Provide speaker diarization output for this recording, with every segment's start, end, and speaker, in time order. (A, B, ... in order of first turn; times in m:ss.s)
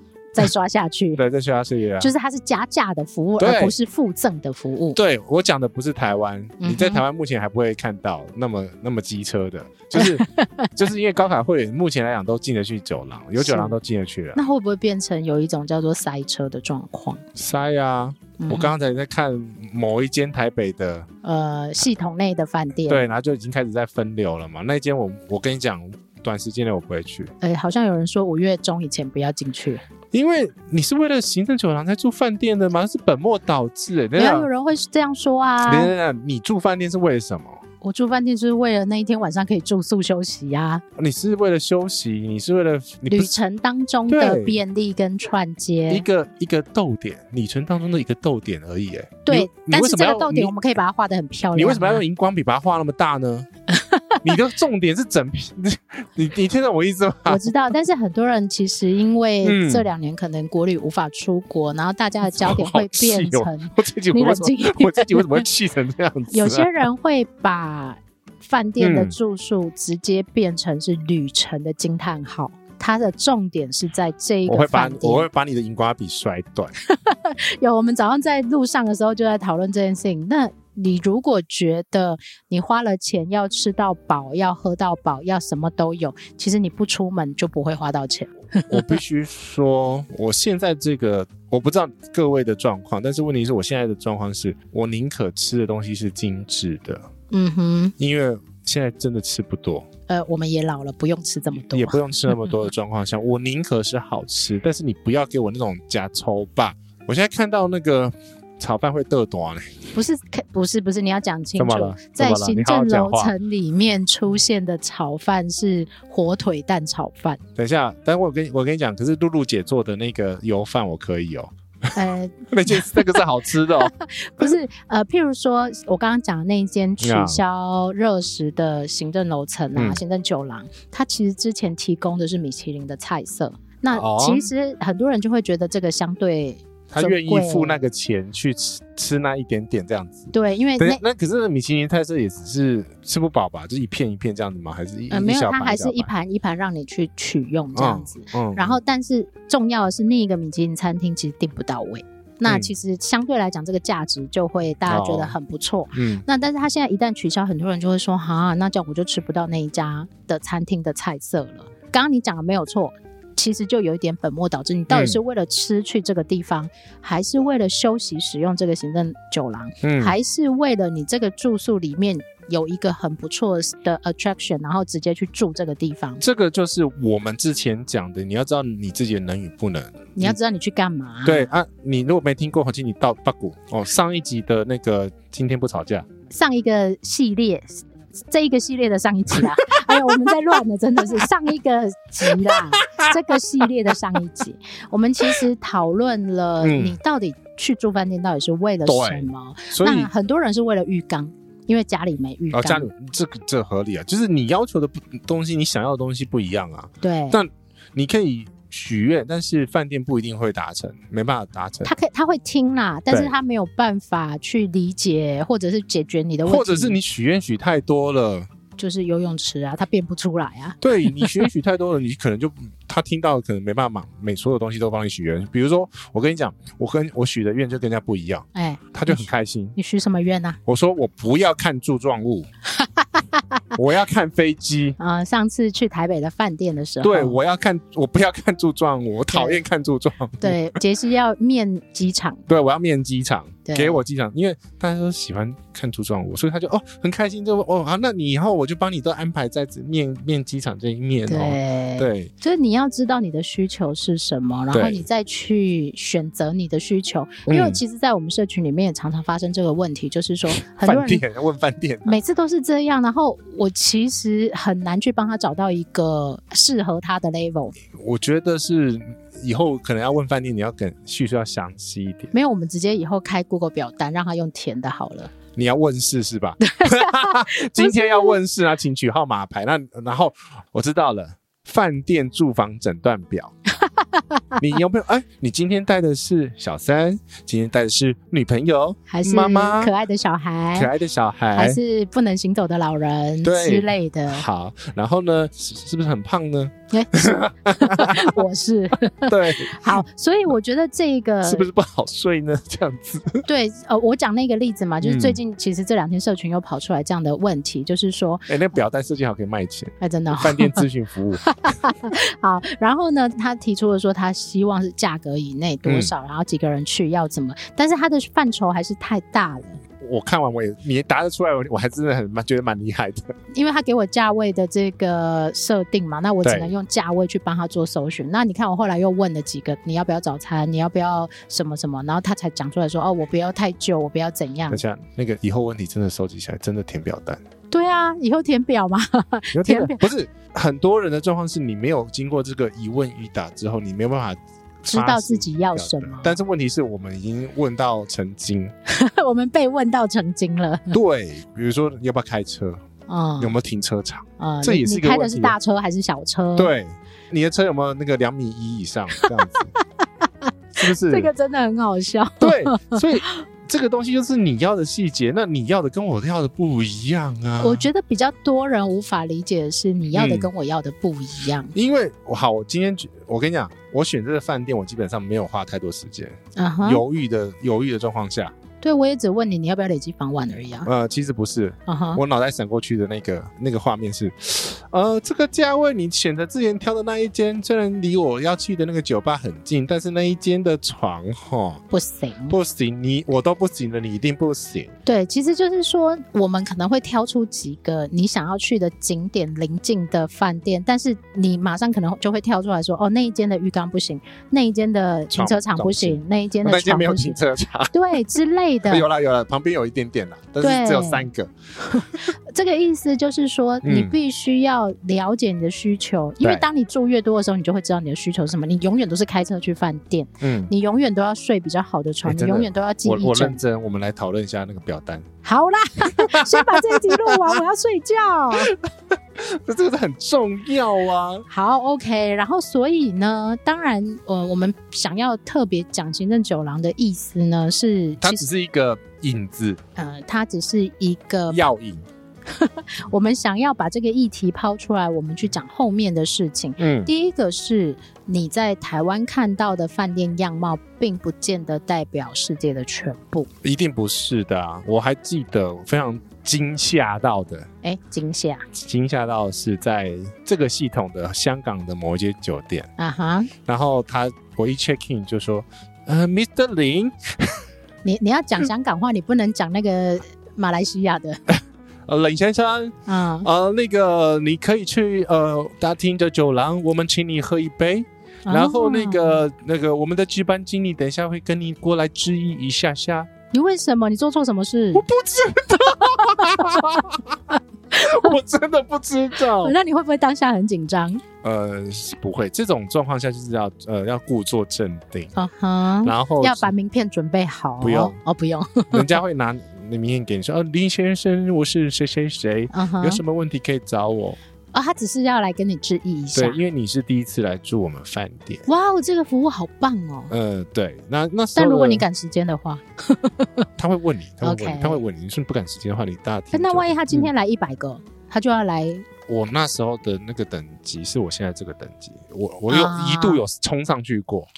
0:00.4-0:01.2 A
0:01.2-0:02.1 B
0:02.0-0:05.0 A
0:03.4-0:03.8 B
0:05.0-0:14.4 B
0:06.6-0:07.0 A
0:09.9-0:10.7 A
0:13.4-0:13.8 A
0:14.4-0:17.2 A
0:17.4-0:21.1 B
0:18.4-0:18.7 A
0:21.2-0:23.0 A
0:22.9-0:27.3 B
0:27.4-0:29.8 A
0:30.1-0:34.5 B
0:34.2-0:35.9 A
0:35.6-0:37.6 B
0:37.8-0:40.8 A
0:41.0-0:43.3 B
0:43.1-0:46.0 A
0:44.1-0:44.6 B
0:45.9-0:50.6 B
0:49.2-0:52.0 A
0:51.5-0:53.5 B
0:53.7-0:54.2 A
0:54.2-0:57.5 B
0:57.3-1:05.4 A
0:59.4-0:59.9 B
1:02.3-1:06.7 B
1:06.3-1:15.3 A
1:08.8-1:09.2 B
1:14.5-1:16.8 B
1:16.9-1:29.0 A
1:28.7-1:37.1 B
1:37.3-1:37.9 A
1:38.0-1:39.9 B
1:40.1-1:42.0 A
1:41.6-1:49.9 B
1:50.0-1:57.4 A
1:51.6-1:53.3 B
1:57.6-2:02.0 B
2:02.0-2:03.2 A
2:02.5-2:04.5 B
2:03.8-2:17.8 A
2:07.0-2:07.4 B
2:09.8-2:10.0 B
2:13.9-2:14.5 B
2:16.9-2:26.1 B
2:20.3-2:21.0 A
2:25.1-2:56.2 A
2:27.8-2:28.8 B
2:32.4-2:32.7 B
2:34.9-2:35.4 B
2:35.9-2:36.2 B
2:44.9-2:45.2 B
2:49.8-2:50.2 B
2:56.2-3:00.4 B
3:00.2-3:01.5 A
3:01.2-3:06.1 B
3:06.3-3:22.9 A
3:09.3-3:10.4 B
3:12.2-3:13.1 B
3:16.6-3:17.0 B
3:18.8-3:20.1 B
3:22.5-3:31.9 B
3:27.0-3:27.4 A
3:31.8-3:37.0 A
3:36.4-3:38.5 B
3:38.8-3:41.4 A
3:40.8-3:49.8 B
3:48.6-3:49.2 A
3:49.8-3:50.6 A
3:50.7-3:52.5 B
3:52.8-3:53.6 A
3:53.8-3:55.0 B
3:55.0-3:57.4 A
3:57.0-4:00.6 B
3:59.3-3:59.6 A
4:00.4-4:02.4 A
4:02.5-4:12.3 B
4:03.7-4:04.0 A
4:11.3-4:21.2 A
4:14.7-4:15.0 B
4:17.5-4:17.8 B
4:20.5-4:22.2 B
4:22.0-4:27.8 A
4:27.9-4:32.3 B
4:32.3-4:35.3 A
4:35.6-4:43.5 B
4:36.6-4:38.4 A
4:43.9-4:44.4 A
4:44.6-4:49.9 B
4:49.1-4:50.9 A
4:50.8-4:51.8 B
4:51.6-4:54.4 A
4:53.4-4:58.4 B
4:56.9-5:01.7 A
4:59.2-5:00.0 B
5:01.4-5:03.4 B
5:03.5-5:08.5 A
5:05.0-5:05.4 B
5:08.5-5:11.5 B
5:10.0-5:10.8 A
5:11.4-5:19.8 A
5:15.8-5:16.1 B
5:20.0-5:23.3 B
5:23.5-5:34.8 A
5:26.4-5:26.7 B
5:34.7-5:37.4 B
5:37.7-5:40.0 A
5:39.5-5:48.7 B
5:44.9-5:46.3 A
5:48.9-5:51.0 A
5:50.9-5:52.8 B
5:53.1-5:53.6 A
5:53.4-5:55.6 B
5:54.4-5:56.7 A
5:56.6-5:59.7 B
6:00.4-6:03.4 A
6:00.8-6:01.3 B
6:02.4-6:07.9 B
6:07.6-6:11.7 A
6:10.1-6:10.5 B
6:11.7-6:18.5 B
6:16.6-6:17.0 A
6:18.8-6:20.9 A
6:20.8-6:31.8 B
6:21.9-6:22.2 A
6:31.9-6:32.6 A
6:32.5-6:34.9 B
6:35.1-6:47.4 A
6:45.3-6:47.9 B
6:47.9-6:49.0 A
6:48.9-6:51.5 B
6:50.6-6:51.3 A
6:51.9-7:03.6 A
6:53.8-6:54.1 B
7:00.4-7:00.7 B
7:02.2-7:05.3 B
7:05.4-7:08.7 A
7:06.0-7:07.6 B
7:08.5-7:11.5 B
7:11.5-7:18.4 A
7:18.2-7:19.8 B
7:20.0-7:21.6 A
7:21.5-7:22.0 B
7:22.5-7:33.5 A
7:26.8-7:27.1 B
7:33.6-7:37.7 B
7:37.8-7:38.6 A
7:38.7-7:42.9 B
7:43.0-7:43.5 A
7:43.6-7:47.6 B
7:48.0-7:51.4 A
7:51.5-8:03.3 B
7:53.1-7:53.5 A
7:58.5-7:59.4 A
8:03.5-8:05.0 A
8:04.9-8:07.4 B
8:06.4-8:06.6 A
8:07.9-8:09.8 B
8:08.0-8:08.3 A
8:09.6-8:11.2 A
8:11.4-8:15.3 B
8:15.4-8:19.2 A
8:16.0-8:16.7 B
8:17.8-8:18.2 B
8:18.9-8:24.4 B
8:22.7-8:23.2 A
8:24.7-8:26.6 A
8:26.4-8:28.7 B
8:28.7-8:30.3 A
8:30.3-8:32.0 B
8:31.6-8:33.7 A
8:33.8-8:37.3 B
8:34.4-8:35.0 A
8:36.5-8:39.0 A
8:39.3-8:44.5 B
8:42.7-8:43.4 A